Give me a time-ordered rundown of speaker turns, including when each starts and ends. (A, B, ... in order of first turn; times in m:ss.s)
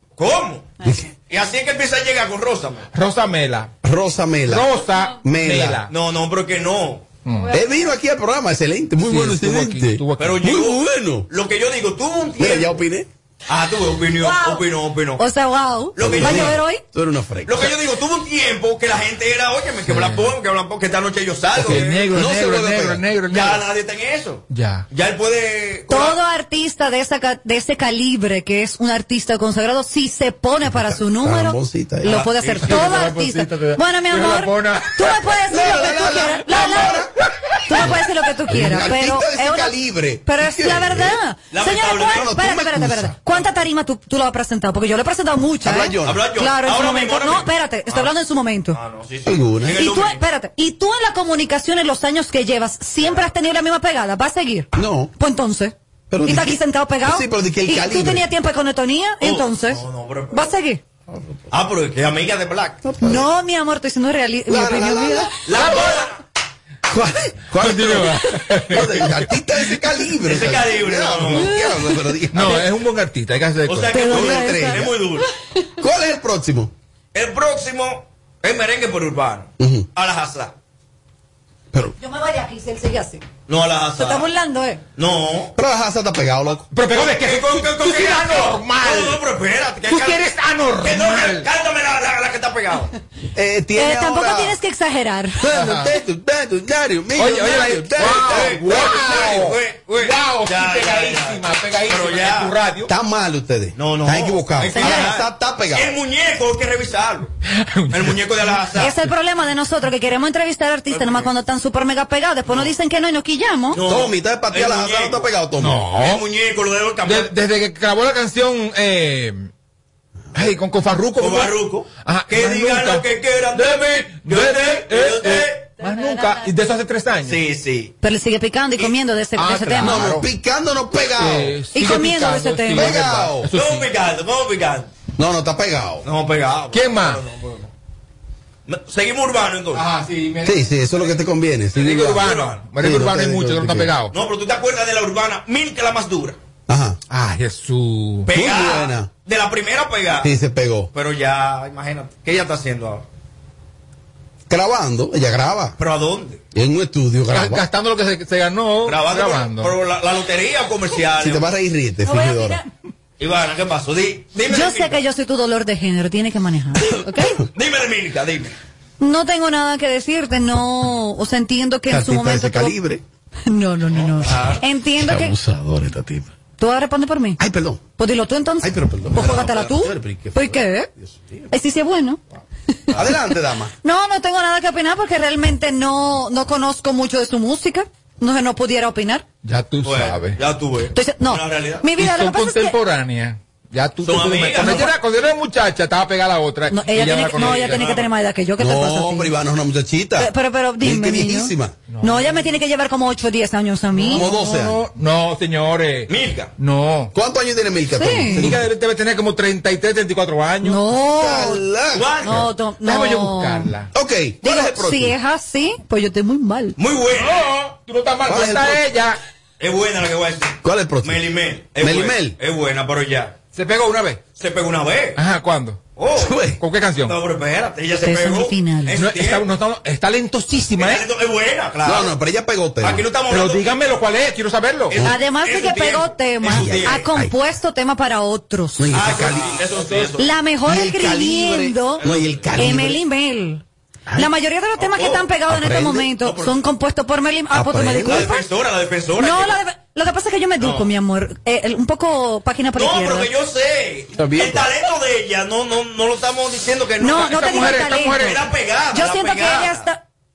0:00.2-0:02.9 A
0:00.8-0:01.1 B
0:02.9-0:03.7 C
0:03.8-0:04.7 B
0:04.5-0:05.9 C
0:05.2-0:05.8 B
0:05.9-0:07.2 A
0:07.2-0:07.6 C
0:07.5-0:11.3 B
0:09.1-0:10.5 C
0:10.2-0:12.8 A
0:12.4-0:13.1 B
0:13.5-0:15.3 A
0:14.2-0:14.6 D
0:15.2-0:16.8 D
0:16.0-0:16.6 A
0:16.0-0:17.8 B
0:17.4-0:22.2 A
0:19.8-0:20.3 C
0:21.6-0:23.6 C
0:21.6-0:23.0 B
0:23.3-0:26.2 A
0:24.5-0:24.9 C
0:25.9-0:37.0 D
0:30.7-0:32.2 B
0:32.0-0:33.0 A
0:32.6-0:35.2 C
0:35.5-0:37.1 B
0:37.7-0:48.8 D
0:38.5-0:41.2 B
0:41.5-0:42.3 A
0:42.1-0:43.2 B
0:45.6-0:46.2 B
0:46.0-0:48.2 A
0:48.7-0:50.2 A
0:49.2-0:49.8 B
0:49.7-0:59.8 D
0:53.0-0:53.3 A
0:54.8-0:55.1 B
0:56.1-0:58.3 B
0:59.2-1:00.6 A
1:00.3-1:00.8 D
1:01.5-1:02.8 A
1:02.8-1:03.3 B
1:03.0-1:05.3 D
1:04.5-1:05.3 B
1:05.4-1:06.2 A
1:05.6-1:05.9 C
1:06.9-1:12.7 B
1:07.6-1:09.3 C
1:10.2-1:11.5 A
1:11.4-1:12.0 D
1:12.3-1:14.2 C
1:13.6-1:15.3 A
1:13.9-1:14.9 D
1:14.1-1:15.0 B
1:15.8-1:16.7 B
1:17.1-1:20.5 A
1:19.6-1:19.9 B
1:22.0-1:23.2 D
1:23.5-1:24.3 A
1:24.0-1:24.8 D
1:25.0-1:25.5 A
1:25.6-1:26.7 B
1:26.7-1:29.2 C
1:26.9-1:32.9 A
1:29.9-1:31.5 C
1:33.4-1:34.6 B
1:33.8-1:35.5 D
1:35.4-1:39.1 B
1:35.5-1:35.9 C
1:37.2-1:42.9 C
1:38.0-1:42.6 A
1:42.9-1:46.0 B
1:43.8-1:47.3 A
1:44.7-1:45.1 D
1:47.5-1:48.9 C
1:47.9-1:49.0 A
1:48.8-1:53.8 D
1:50.9-1:51.3 A
1:52.5-1:52.7 A
1:53.7-1:55.3 A
1:53.8-1:55.8 B
1:55.6-1:56.2 C
1:55.9-1:57.4 A
1:57.0-1:59.5 C
2:00.4-2:07.4 C
2:01.2-2:05.8 A
2:05.9-2:06.4 D
2:07.2-2:08.0 A
2:08.0-2:10.1 D
2:09.4-2:10.3 C
2:09.8-2:11.6 B
2:11.1-2:13.9 C
2:11.7-2:13.0 D
2:12.8-2:13.5 B
2:13.5-2:14.9 A
2:15.2-2:16.1 B
2:16.0-2:17.7 A
2:16.7-2:17.2 C
2:18.7-2:19.9 A
2:19.7-2:21.0 C
2:20.4-2:23.9 B
2:21.8-2:24.1 C
2:21.8-2:22.8 A
2:24.1-2:26.4 A
2:26.7-2:27.0 B
2:27.1-2:28.3 C
2:28.3-2:30.3 A
2:28.3-2:29.1 B
2:30.2-2:30.9 B
2:30.9-2:33.0 A
2:34.5-2:35.8 B
2:35.8-2:36.4 A
2:36.5-2:37.6 B
2:37.3-2:39.7 C
2:38.8-2:41.5 A
2:41.2-2:42.6 B
2:42.0-2:42.7 D
2:43.2-2:45.0 A
2:44.5-2:47.4 D
2:47.4-2:48.5 A
2:49.0-2:52.8 D
2:51.9-2:53.0 B
2:53.5-2:55.4 D
2:54.0-2:54.6 A
2:55.0-2:56.3 B
2:56.6-2:57.4 D
2:57.4-2:57.8 B
2:58.0-3:00.9 D
2:58.6-3:01.5 B
2:59.2-2:59.6 A
3:01.5-3:02.2 D
3:02.7-3:09.2 D
3:03.0-3:03.7 B
3:09.4-3:10.4 C
3:09.8-3:11.9 A
3:10.9-3:12.8 D
3:12.0-3:18.0 C
3:14.0-3:15.0 A
3:16.7-3:19.4 D
3:17.3-3:18.1 A
3:18.6-3:21.8 B
3:20.2-3:24.3 D
3:21.9-3:22.4 C
3:24.0-3:27.1 C
3:24.1-3:24.8 B
3:26.1-3:26.5 A
3:27.1-3:28.7 B
3:28.0-3:28.5 D
3:28.2-3:30.9 C
3:30.6-3:31.6 D
3:31.1-3:32.5 B
3:31.9-3:32.4 A
3:32.2-3:33.7 D
3:32.8-3:33.9 C
3:33.9-3:35.2 B
3:34.4-3:36.8 D
3:36.8-3:37.6 A
3:37.1-3:39.2 C
3:38.3-3:38.8 B
3:39.6-3:43.4 A
3:40.6-3:41.2 B
3:41.8-3:42.4 B
3:43.5-3:44.2 C
3:44.4-3:45.2 A
3:45.2-3:45.8 C
3:46.0-3:46.4 A
3:46.2-3:46.6 B
3:46.6-3:47.2 C
3:47.0-3:49.5 A
3:48.0-3:49.0 D
3:49.0-3:51.1 C
3:50.8-3:52.1 A
3:51.8-3:53.1 B
3:52.8-3:53.7 A
3:53.3-3:55.0 C
3:54.9-3:57.1 A
3:55.0-3:59.1 D
3:56.5-3:57.3 B
3:58.8-3:59.6 B
3:58.9-4:00.3 A
3:59.8-4:00.1 C
4:00.2-4:03.6 D
4:00.6-4:03.0 B
4:02.0-4:02.6 A
4:04.2-4:08.5 D
4:04.8-4:05.3 A
4:05.5-4:06.1 B
4:06.2-4:06.6 A
4:07.5-4:08.3 B
4:08.0-4:09.6 A
4:09.2-4:13.3 D
4:10.6-4:10.9 A
4:12.8-4:19.9 A
4:14.2-4:14.7 B
4:17.0-4:18.3 D
4:17.1-4:18.4 C
4:18.9-4:20.0 D